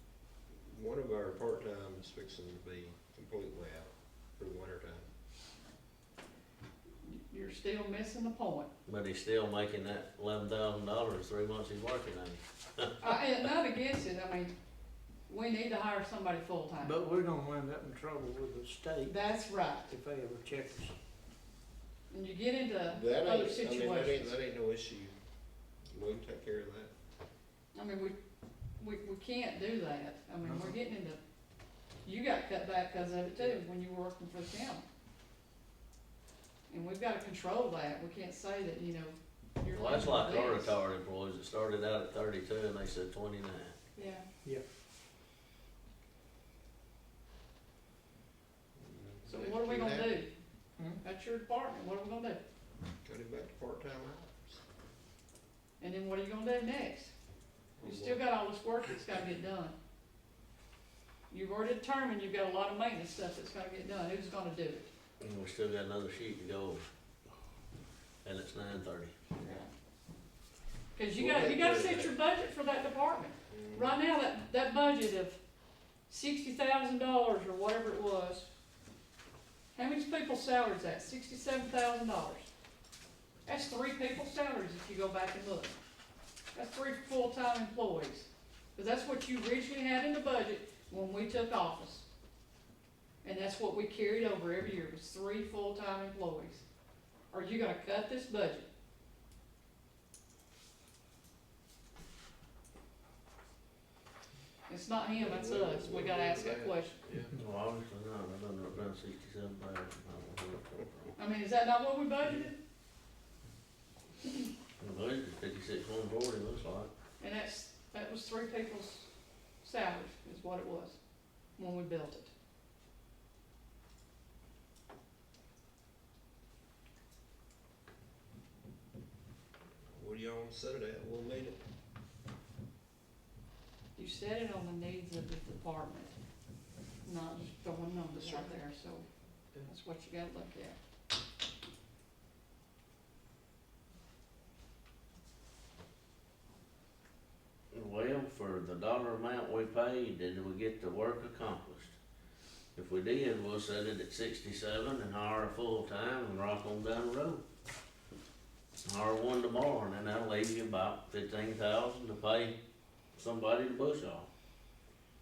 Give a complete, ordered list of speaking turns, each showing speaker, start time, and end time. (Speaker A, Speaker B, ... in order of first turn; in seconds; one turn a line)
Speaker A: 0.7-5.1
Speaker B: 7.0-8.7
Speaker C: 8.8-13.1
Speaker B: 13.0-14.5
Speaker B: 15.3-16.9
Speaker D: 16.8-19.1
Speaker B: 19.1-19.9
Speaker D: 19.9-20.9
Speaker B: 22.1-24.3
Speaker A: 22.9-25.1
Speaker A: 25.9-26.9
Speaker B: 27.7-28.1
Speaker B: 28.8-31.2
Speaker D: 30.4-30.7
Speaker B: 32.0-34.8
Speaker B: 36.7-40.7
Speaker C: 39.7-43.8
Speaker B: 44.0-44.2
Speaker A: 48.8-50.1
Speaker B: 49.3-50.3
Speaker B: 51.0-52.4
Speaker A: 53.0-54.6
Speaker B: 55.8-57.1
Speaker A: 57.8-58.2
Speaker B: 57.8-59.8
Speaker B: 61.3-64.9
Speaker C: 65.2-66.8
Speaker C: 68.2-69.1
Speaker B: 69.4-69.7
Speaker B: 70.9-75.4
Speaker A: 71.2-72.2
Speaker A: 73.5-74.0
Speaker B: 76.1-78.5
Speaker B: 79.7-82.5
Speaker B: 83.5-85.8
Speaker B: 86.5-92.0
Speaker B: 93.2-96.6
Speaker B: 97.3-98.7
Speaker B: 104.7-107.0
Speaker A: 105.2-107.3
Speaker C: 107.3-111.1
Speaker B: 111.2-112.6
Speaker C: 114.8-116.9
Speaker B: 117.2-119.1
Speaker B: 119.6-121.0
Speaker B: 121.6-122.3
Speaker A: 129.9-131.6
Speaker B: 133.9-136.1
Speaker B: 137.0-139.1
Speaker B: 139.6-140.8
Speaker C: 147.7-152.0
Speaker C: 152.8-157.4
Speaker C: 158.8-162.5
Speaker C: 163.1-164.3